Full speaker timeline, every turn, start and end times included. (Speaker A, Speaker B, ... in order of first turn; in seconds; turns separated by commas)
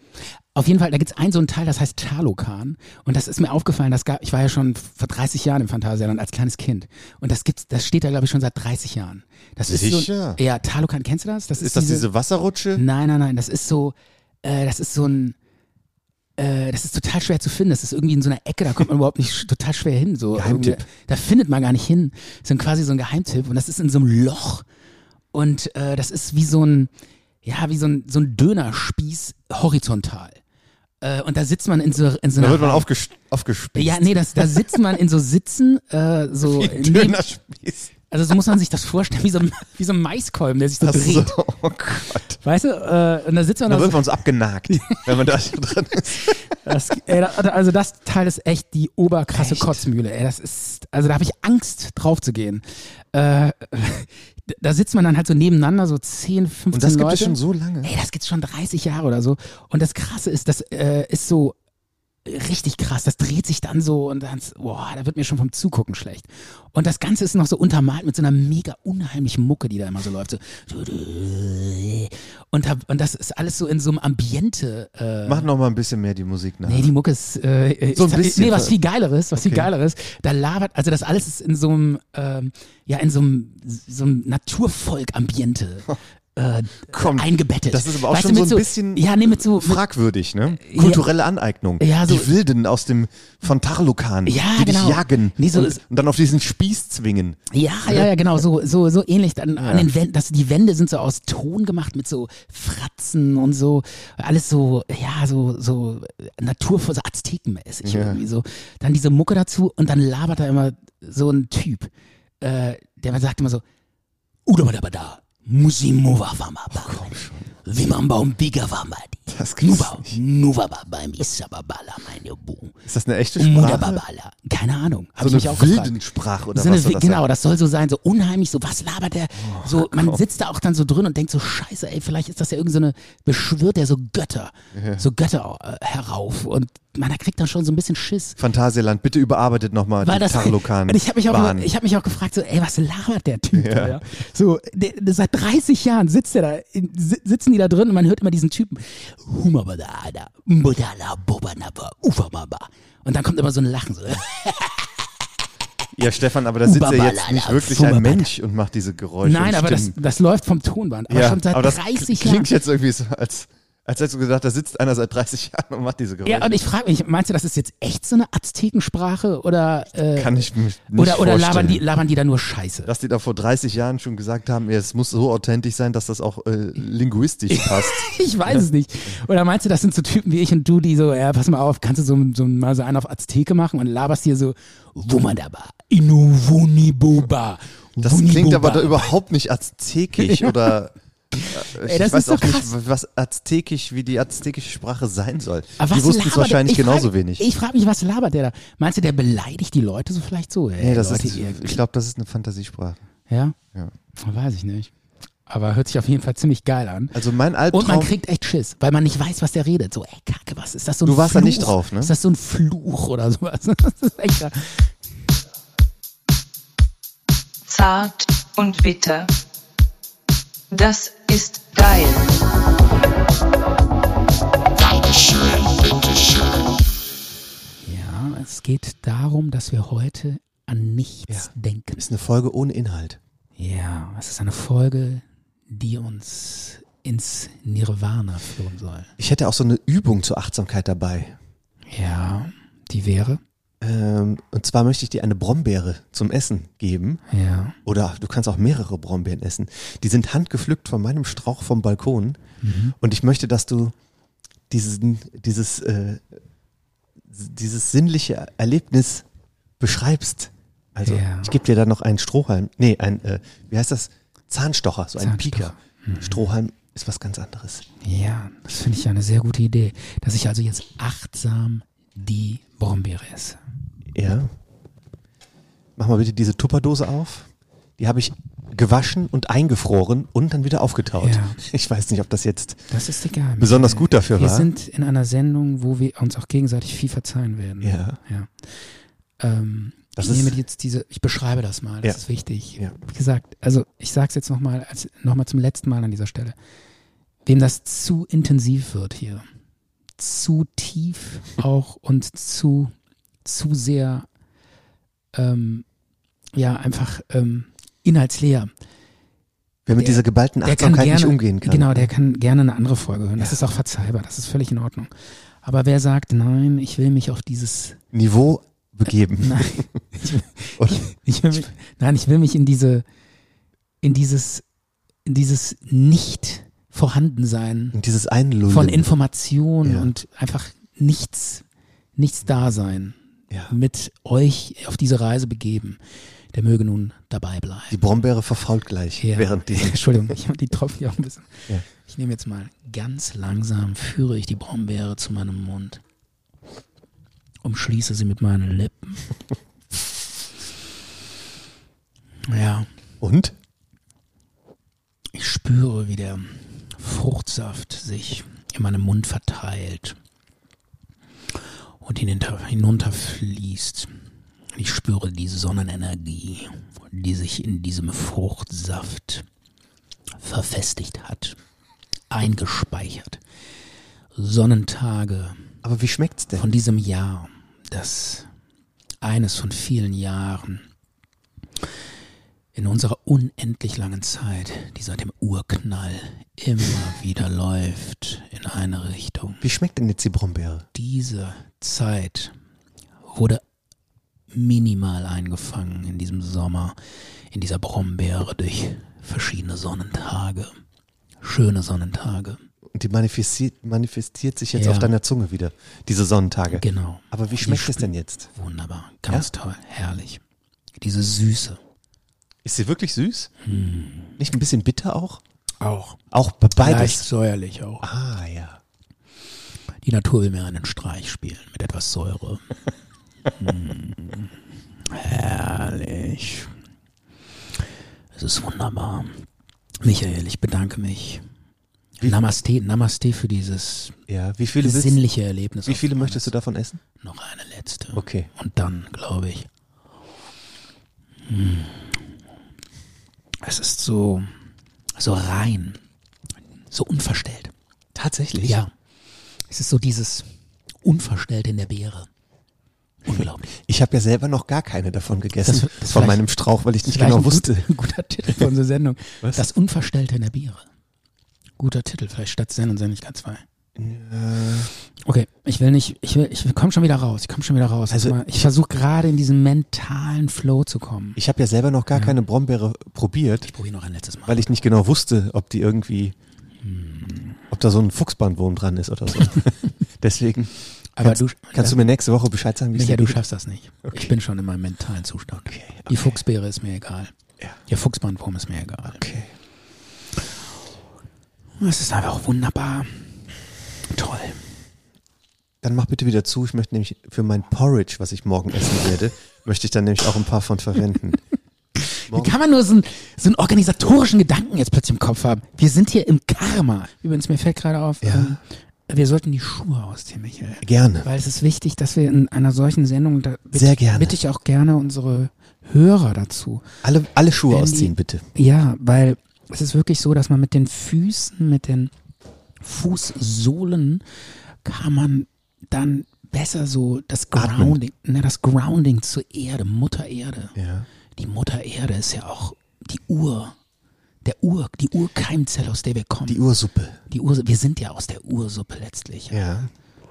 Speaker A: 0.6-12.1, Speaker B: 9.7-10.4, Speaker B: 11.6-12.8, Speaker A: 12.8-15.4, Speaker A: 16.4-24.6, Speaker B: 20.4-20.9, Speaker A: 25.3-26.9, Speaker A: 27.4-30.4, Speaker A: 31.0-32.9, Speaker B: 32.4-34.7, Speaker A: 33.8-37.2, Speaker B: 36.4-37.9, Speaker A: 38.1-41.4, Speaker B: 40.8-42.4, Speaker A: 42.4-44.1, Speaker B: 43.7-46.4, Speaker A: 44.7-45.1, Speaker A: 46.6-61.6, Speaker B: 49.3-49.9, Speaker B: 56.7-57.9, Speaker A: 62.2-75.5, Speaker B: 75.3-76.9, Speaker A: 76.7-89.8, Speaker B: 77.9-78.8, Speaker B: 79.3-79.7, Speaker B: 86.9-98.1, Speaker A: 90.5-91.1, Speaker A: 91.8-92.3, Speaker A: 94.3-95.8, Speaker A: 97.5-111.9, Speaker B: 99.6-99.9, Speaker B: 107.8-108.2, Speaker A: 112.4-113.6, Speaker A: 114.5-117.1, Speaker B: 116.7-117.5, Speaker A: 117.7-122.8, Speaker B: 119.3-120.2, Speaker B: 122.8-124.0, Speaker A: 123.4-126.0, Speaker B: 125.2-127.2, Speaker A: 126.5-138.4, Speaker B: 129.4-130.2, Speaker B: 134.7-135.0, Speaker B: 138.4-141.7, Speaker A: 140.0-154.9, Speaker B: 143.5-144.0, Speaker B: 156.0-160.0, Speaker A: 156.6-158.3, Speaker A: 159.2-162.5, Speaker B: 161.1-166.5, Speaker A: 166.2-172.9, Speaker B: 170.1-171.8, Speaker B: 172.9-178.7, Speaker A: 177.5-189.1, Speaker B: 188.0-190.9, Speaker A: 190.2-190.8, Speaker A: 191.3-192.7, Speaker B: 191.4-197.4, Speaker A: 195.8-201.8, Speaker B: 200.8-203.0, Speaker A: 203.3-203.6, Speaker A: 204.2-204.9, Speaker A: 205.5-207.2, Speaker B: 207.1-208.2, Speaker A: 207.7-214.9, Speaker B: 211.0-212.2, Speaker C: 217.7-219.3, Speaker C: 220.7-222.4, Speaker A: 227.8-232.1, Speaker B: 231.3-233.2, Speaker A: 233.6-239.1, Speaker B: 239.2-241.4, Speaker A: 241.9-243.4, Speaker B: 243.8-247.2, Speaker A: 247.3-247.8, Speaker B: 247.8-252.4, Speaker A: 252.6-252.9, Speaker B: 253.0-253.9, Speaker B: 254.7-256.4, Speaker B: 257.3-259.2, Speaker B: 259.8-267.9, Speaker A: 261.0-261.5, Speaker A: 265.2-266.5, Speaker A: 268.0-273.6, Speaker B: 274.1-274.5, Speaker B: 276.0-282.9, Speaker A: 281.2-281.6, Speaker A: 282.9-288.8, Speaker B: 283.6-284.7, Speaker B: 287.8-288.2, Speaker A: 289.4-296.6, Speaker B: 290.2-290.6, Speaker A: 297.5-299.4, Speaker A: 300.2-302.9, Speaker A: 303.4-304.3, Speaker A: 305.3-305.9, Speaker A: 306.5-308.7, Speaker B: 309.9-312.1, Speaker A: 309.9-315.1, Speaker A: 315.6-318.0, Speaker B: 318.1-319.9, Speaker A: 319.4-323.1, Speaker B: 320.8-321.7, Speaker A: 324.0-324.6, Speaker A: 325.3-328.0, Speaker B: 327.9-329.1, Speaker A: 328.7-331.6, Speaker B: 329.8-330.1, Speaker A: 332.2-333.2, Speaker A: 333.7-336.0, Speaker A: 336.5-338.0, Speaker B: 337.9-340.3, Speaker A: 339.2-346.0, Speaker A: 347.6-349.2, Speaker A: 352.5-352.9, Speaker B: 353.2-353.6, Speaker A: 355.3-360.2, Speaker A: 362.0-364.1, Speaker A: 364.7-369.5, Speaker A: 370.4-371.6, Speaker A: 372.3-373.4, Speaker A: 374.4-375.6, Speaker B: 375.8-376.7, Speaker A: 376.5-378.5, Speaker A: 379.2-380.8, Speaker A: 382.8-389.6, Speaker B: 389.6-390.9, Speaker A: 390.9-392.5, Speaker A: 393.3-393.6, Speaker A: 394.5-397.0, Speaker A: 397.5-400.8, Speaker A: 401.4-402.6, Speaker B: 402.9-408.5, Speaker A: 404.8-405.1, Speaker A: 406.7-410.4, Speaker A: 411.0-411.8, Speaker B: 412.6-413.5, Speaker A: 413.6-414.4, Speaker B: 414.4-415.4, Speaker A: 415.8-416.2, Speaker B: 416.3-417.3, Speaker A: 416.8-418.1, Speaker B: 418.0-418.8, Speaker A: 420.0-422.6, Speaker A: 423.6-424.5, Speaker A: 425.1-426.7, Speaker A: 428.4-429.4, Speaker A: 430.0-431.4, Speaker B: 432.2-432.5, Speaker A: 432.2-434.2, Speaker B: 434.3-435.2, Speaker A: 434.8-436.5, Speaker B: 435.9-437.0, Speaker A: 437.2-439.7, Speaker B: 438.1-438.5, Speaker A: 441.5-442.2, Speaker A: 443.6-444.5, Speaker A: 445.2-446.0, Speaker A: 446.9-447.7, Speaker B: 448.1-448.8, Speaker A: 448.6-448.9, Speaker A: 449.7-450.5, Speaker A: 451.0-452.3, Speaker A: 453.2-453.7, Speaker B: 453.3-457.9, Speaker A: 455.6-456.4, Speaker A: 457.0-460.8, Speaker B: 459.4-459.7, Speaker A: 461.8-463.6, Speaker B: 464.0-464.9, Speaker A: 465.2-471.4, Speaker B: 468.1-468.7, Speaker B: 471.4-473.7, Speaker A: 473.7-474.7, Speaker B: 474.5-476.4, Speaker A: 476.8-477.6, Speaker B: 477.7-483.4, Speaker A: 481.2-482.0, Speaker A: 482.9-487.3, Speaker B: 484.1-484.3, Speaker B: 485.6-486.4, Speaker A: 487.9-489.2, Speaker B: 489.1-489.5, Speaker A: 491.8-493.3, Speaker A: 494.1-494.6, Speaker B: 495.8-501.4, Speaker A: 502.1-516.8, Speaker B: 502.3-502.6, Speaker B: 508.2-508.6, Speaker B: 510.8-511.3, Speaker B: 513.7-514.4, Speaker B: 517.0-518.5, Speaker A: 517.7-522.1, Speaker A: 522.8-524.2, Speaker A: 524.8-530.8, Speaker B: 527.5-528.0, Speaker B: 530.8-531.1, Speaker A: 531.4-533.8, Speaker A: 534.4-536.6, Speaker B: 536.5-537.2, Speaker A: 537.3-539.6, Speaker B: 539.5-539.9